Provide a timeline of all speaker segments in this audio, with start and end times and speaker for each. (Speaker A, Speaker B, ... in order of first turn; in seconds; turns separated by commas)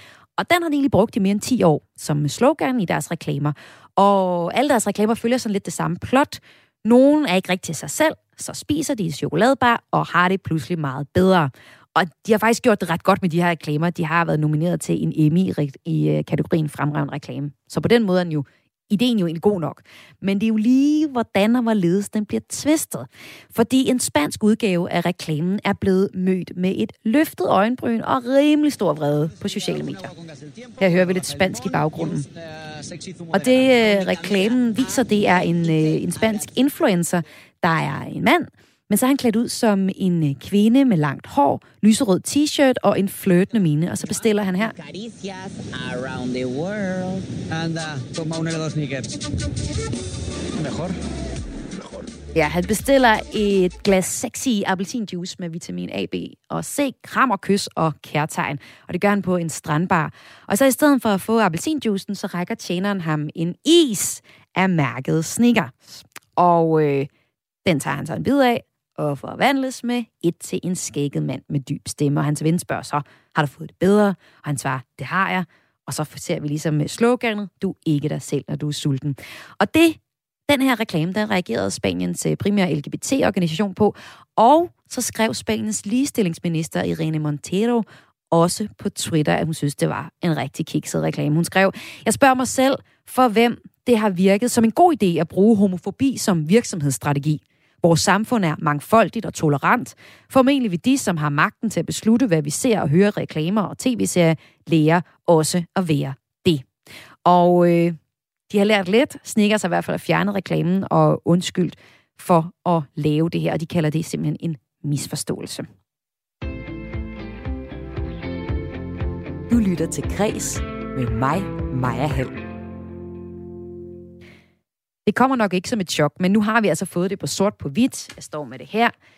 Speaker A: 0.4-30.1, Speaker B: 29.3-36.6, Speaker A: 30.8-32.2, Speaker A: 33.3-44.7, Speaker B: 44.0-49.1, Speaker B: 50.6-50.9, Speaker A: 52.4-67.1, Speaker A: 67.7-106.7, Speaker A: 107.2-108.0, Speaker A: 108.5-115.7, Speaker C: 119.5-122.4, Speaker A: 125.1-128.9